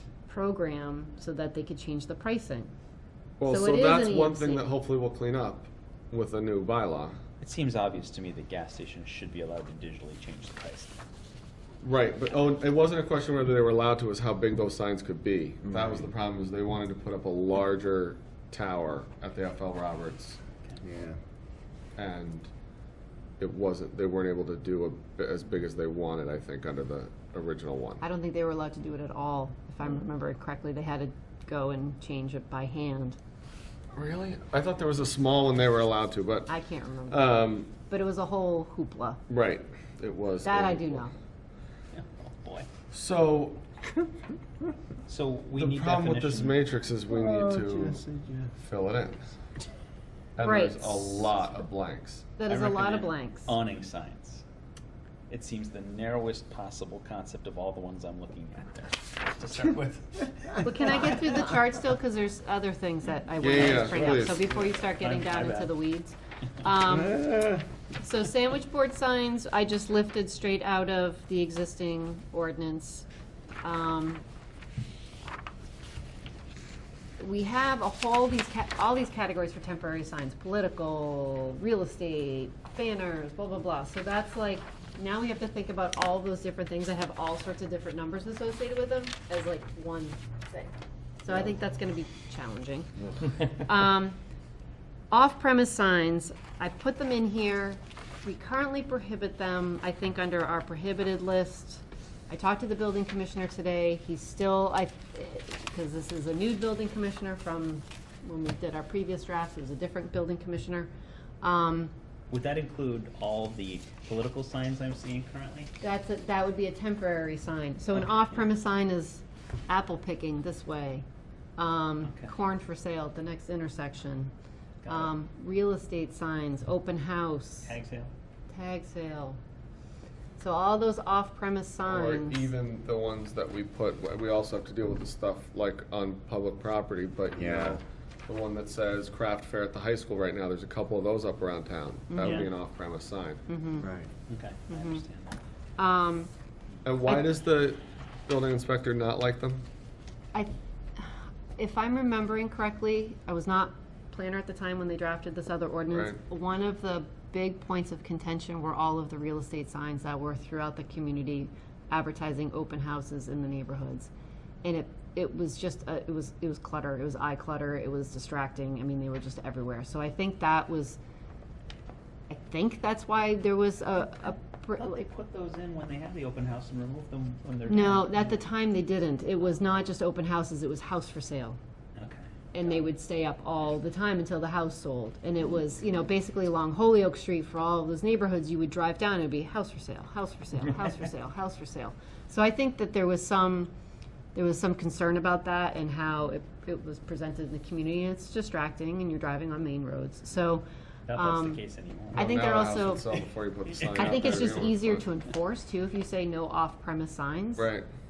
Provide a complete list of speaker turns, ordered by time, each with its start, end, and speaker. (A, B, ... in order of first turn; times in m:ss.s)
0:00.3-0:02.7 A
0:03.4-0:07.2 B
0:03.5-0:04.6 A
0:07.4-0:10.9 C
0:11.8-0:20.4 B
0:15.6-0:16.1 D
0:20.8-0:21.2 D
0:22.0-0:22.5 B
0:23.4-0:28.0 B
0:28.0-0:33.2 A
0:33.9-0:36.5 B
0:36.5-0:39.2 A
0:37.1-0:37.7 B
0:39.3-0:41.0 B
0:40.4-0:41.1 A
0:41.9-0:42.7 C
0:42.9-0:43.6 B
0:45.1-0:46.6 C
0:45.6-0:48.0 B
0:47.1-0:48.5 D
0:48.6-0:49.2 B
0:50.4-0:52.3 B
0:50.4-0:51.3 A
0:52.4-0:53.5 A
0:52.5-0:54.4 C
0:55.3-1:01.6 C
1:00.6-1:13.1 A
1:03.4-1:04.5 B
1:03.4-1:05.8 C
1:07.0-1:07.6 D
1:13.6-1:14.2 A
1:17.2-1:34.2 A
1:35.1-1:50.9 A
1:51.4-1:51.9 A
1:52.3-1:55.7 C
1:55.8-2:01.0 A
2:01.6-2:04.3 A
2:02.0-2:02.4 C
2:04.8-2:05.1 C
2:04.9-2:07.8 A
2:07.6-2:08.1 C
2:08.5-2:09.4 A
2:10.4-2:12.5 A
2:11.9-2:23.4 B
2:17.4-2:17.8 D
2:22.1-2:22.5 A
2:22.2-2:22.5 C
2:23.5-2:23.9 A
2:23.8-2:24.1 D
2:24.3-2:25.4 C
2:24.7-2:25.0 A
2:25.8-2:26.3 A
2:26.8-2:29.6 B
2:30.3-2:44.1 A
2:35.9-2:36.2 B
2:44.6-2:51.0 A
2:52.3-2:55.0 A
2:54.8-2:58.4 C
2:57.7-3:01.6 A
3:02.0-3:02.3 C
3:02.5-3:13.7 A
3:14.3-3:21.6 A
3:21.1-3:22.3 C
3:22.1-3:23.1 A
3:22.1-3:25.0 B
3:23.8-3:24.6 C
3:24.0-3:27.7 A
3:27.6-3:27.9 B